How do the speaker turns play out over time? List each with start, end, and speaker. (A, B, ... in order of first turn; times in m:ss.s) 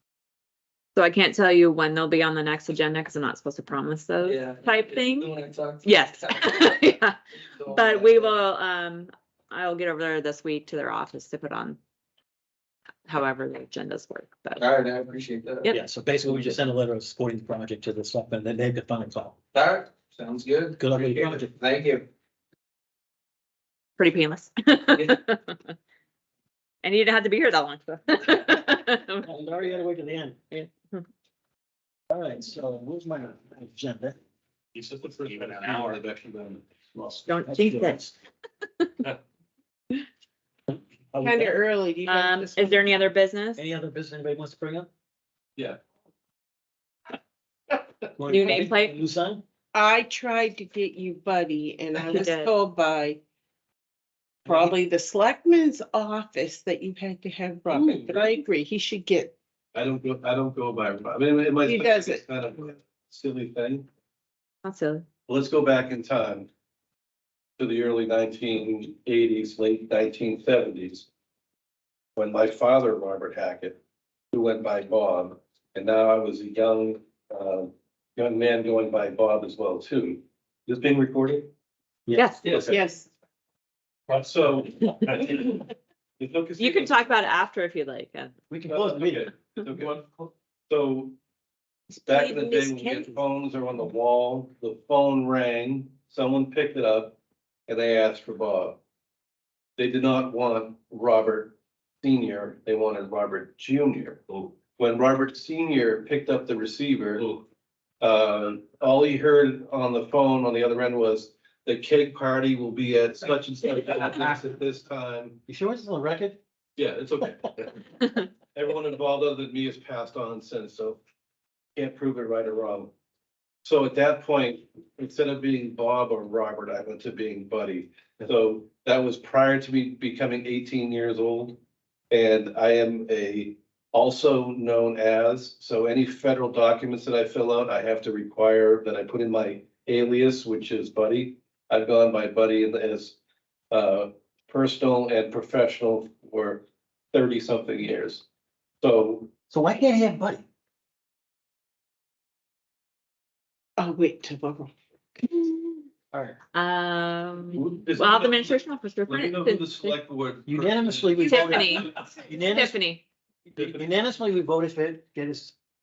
0:01.0-0:05.3 A
0:04.2-0:06.8 B
0:05.8-0:07.2 A
0:07.4-0:08.4 B
0:07.7-0:11.8 A
0:13.1-0:14.6 A
0:14.6-0:16.6 B
0:15.7-0:19.4 C
0:19.5-0:22.1 B
0:20.8-0:21.5 C
0:24.0-0:25.7 A
0:26.8-0:29.3 A
0:29.2-0:30.4 C
0:30.5-0:31.0 A
0:32.1-0:34.2 C
0:34.7-0:36.6 D
0:37.0-0:38.1 C
0:37.2-0:38.0 A
0:41.1-0:41.6 C
0:41.2-0:43.0 E
0:42.0-0:43.6 A
0:43.6-0:44.9 C
0:48.2-0:49.4 C
0:48.3-0:49.0 A
0:49.7-0:53.2 E
0:52.1-0:52.5 A
0:54.4-0:59.3 E
0:57.7-0:58.2 D
0:59.7-1:03.9 D
1:01.6-1:02.7 E
1:04.6-1:05.0 A
1:05.3-1:06.5 D
1:07.6-1:11.1 D
1:12.2-1:13.8 D
1:14.3-1:21.5 D
1:22.1-1:22.7 C
1:22.1-1:22.4 A
1:22.4-1:22.8 D
1:22.6-1:23.1 E
1:24.1-1:25.7 D
1:26.2-1:27.0 D
1:26.6-1:28.3 A
1:28.5-1:29.3 C
1:28.7-1:31.2 D
1:31.9-1:33.1 E
1:32.0-1:37.2 D
1:37.7-1:38.8 D
1:39.8-1:47.3 D
1:48.0-1:55.4 D
1:55.5-1:56.4 C
1:56.8-1:57.8 D
1:58.5-2:01.0 D
2:01.8-2:02.9 D
2:03.6-2:11.6 D
2:12.1-2:23.2 D
2:23.7-2:28.2 D
2:28.8-2:29.3 D
2:29.5-2:30.4 C
2:33.8-2:35.7 E
2:36.1-2:36.4 C
2:36.5-2:40.0 A
2:37.5-2:42.1 D
2:40.5-2:42.8 C
2:41.3-2:41.9 A
2:42.5-2:43.0 A
2:43.5-2:44.0 D
2:43.6-2:45.6 C